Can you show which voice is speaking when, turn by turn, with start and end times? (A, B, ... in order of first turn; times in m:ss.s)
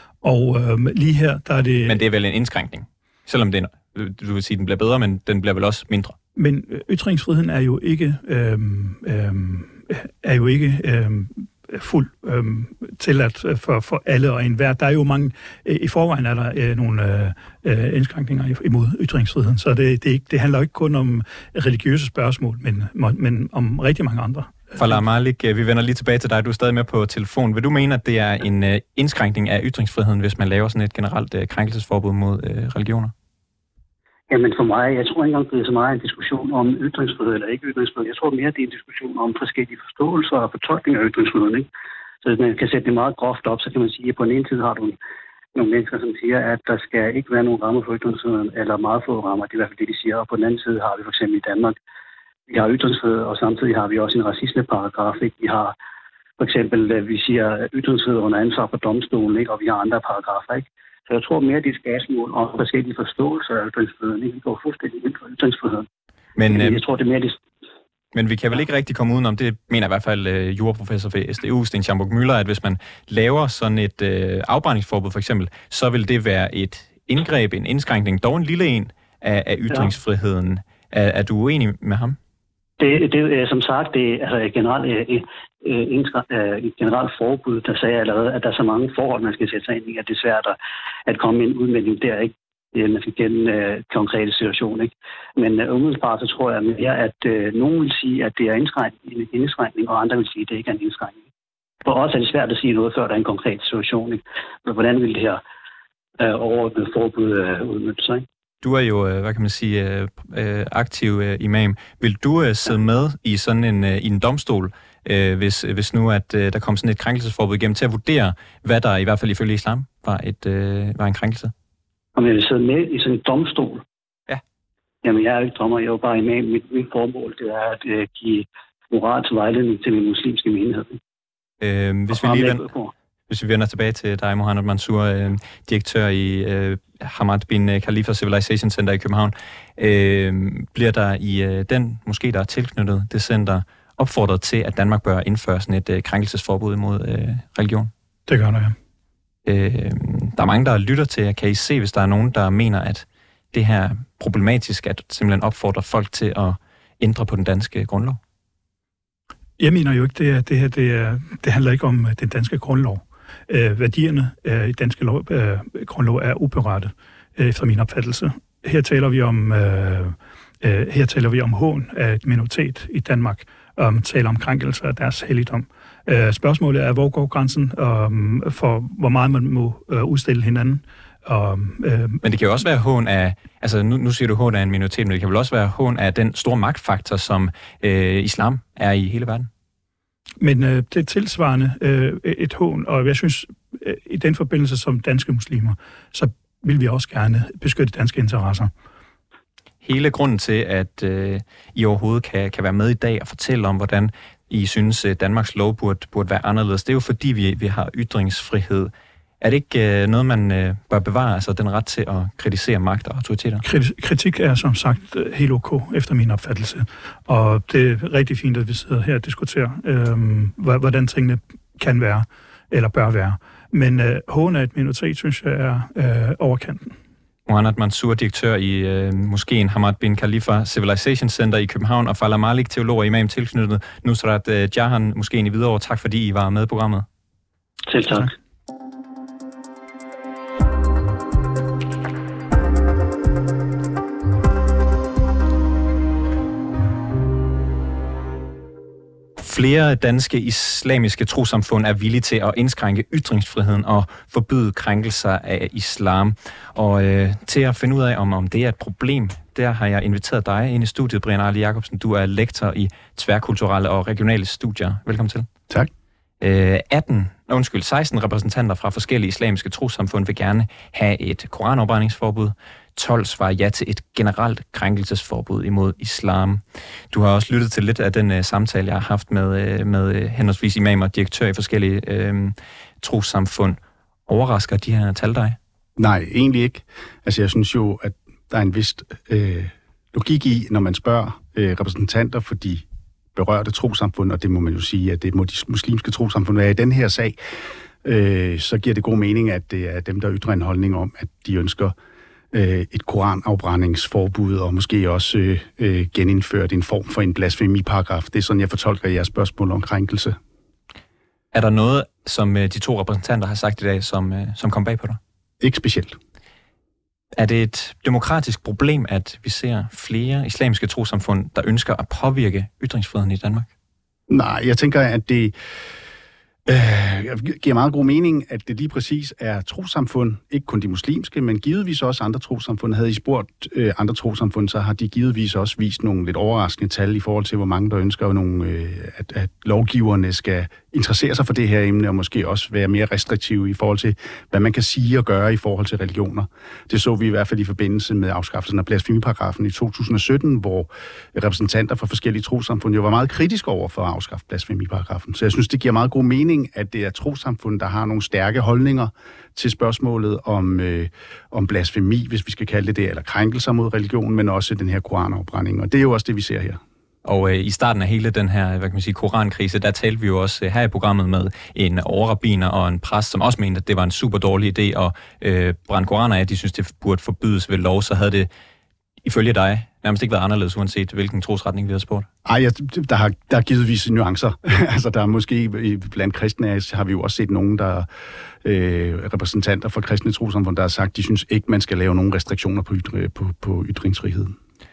0:00.2-0:02.0 A
0:01.8-0:06.2 B
0:06.4-0:25.0 A
0:24.8-0:33.1 B
0:34.3-0:41.7 C
0:42.2-0:45.0 C
0:45.5-0:51.8 C
0:52.5-0:55.7 C
0:56.4-1:05.9 C
1:06.4-1:06.8 B
1:06.5-1:07.4 C
1:08.1-1:22.2 B
1:22.8-1:30.6 C
1:31.1-1:41.2 C
1:41.8-1:45.4 C
1:46.2-1:48.2 C
1:48.6-2:01.5 B
2:02.2-2:03.8 C
2:05.0-2:11.0 C
2:11.6-2:12.6 B
2:12.1-2:12.9 C
2:13.3-2:27.9 B
2:28.3-2:28.8 A
2:29.4-2:38.2 B
2:39.6-3:02.2 A
3:02.2-3:09.5 B
3:10.4-3:18.7 A
3:19.8-3:33.6 B
3:33.6-3:47.0 A
3:47.4-3:57.0 B
3:57.9-3:58.3 C
4:09.4-4:25.5 B
4:26.4-4:45.6 B
4:46.0-4:52.8 D
4:53.3-4:57.4 D
4:58.0-5:01.9 D
5:02.5-5:10.4 D
5:11.5-5:15.2 B
5:15.6-5:16.2 D
5:17.4-5:23.7 B
5:24.3-5:25.5 D
5:26.6-6:06.8 D
6:07.2-6:18.5 B
6:19.2-6:22.3 B
6:22.4-6:28.1 D
6:28.6-6:34.6 D